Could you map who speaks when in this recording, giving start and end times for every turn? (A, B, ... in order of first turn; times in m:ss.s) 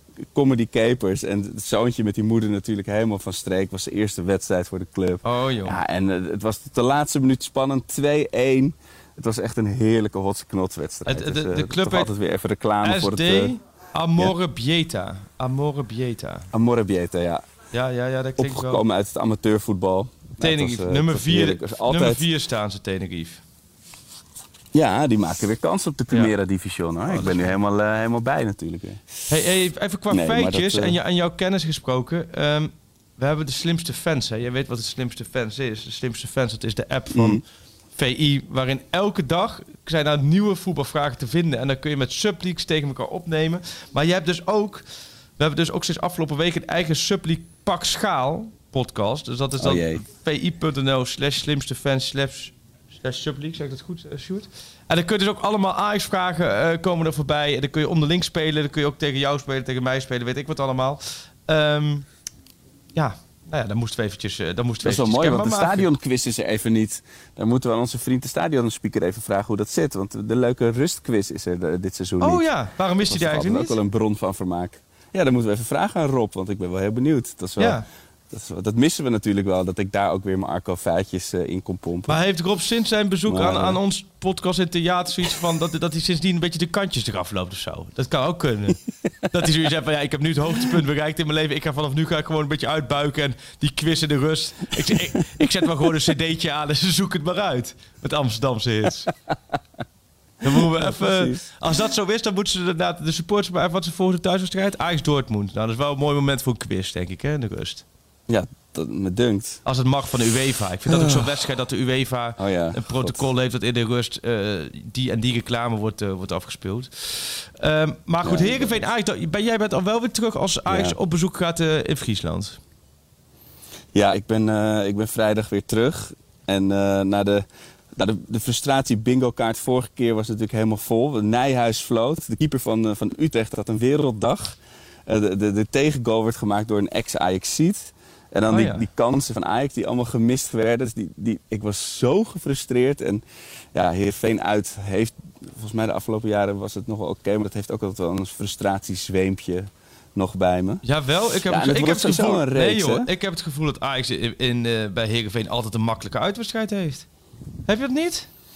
0:00.3-0:13.5 A
0:05.2-0:05.8 B
0:11.0-0:12.1 B
0:12.8-0:16.5 B
0:16.5-0:17.4 A
0:17.7-0:18.8 B
0:18.4-0:22.2 A
0:20.4-0:23.4 B
0:24.7-0:29.1 A
0:27.1-0:27.6 B
0:29.3-0:37.4 B
0:30.1-0:31.0 A
0:37.1-0:37.4 A
0:38.0-0:44.8 B
0:45.4-1:02.0 B
0:49.6-0:50.0 A
1:03.0-1:05.9 B
1:04.8-1:12.4 A
1:12.2-1:13.8 B
1:13.0-1:22.2 A
1:17.6-1:17.8 B
1:22.1-1:39.1 B
1:23.3-1:23.8 A
1:40.4-1:47.8 B
1:40.6-1:41.4 A
1:48.3-1:49.6 A
1:49.6-2:02.6 B
1:50.9-1:51.3 A
1:52.4-1:53.2 A
1:58.2-1:58.8 A
2:00.7-2:01.0 A
2:03.9-2:30.8 A
2:18.5-2:18.9 B
2:30.8-2:37.1 B
2:31.4-2:33.1 A
2:37.7-2:38.3 B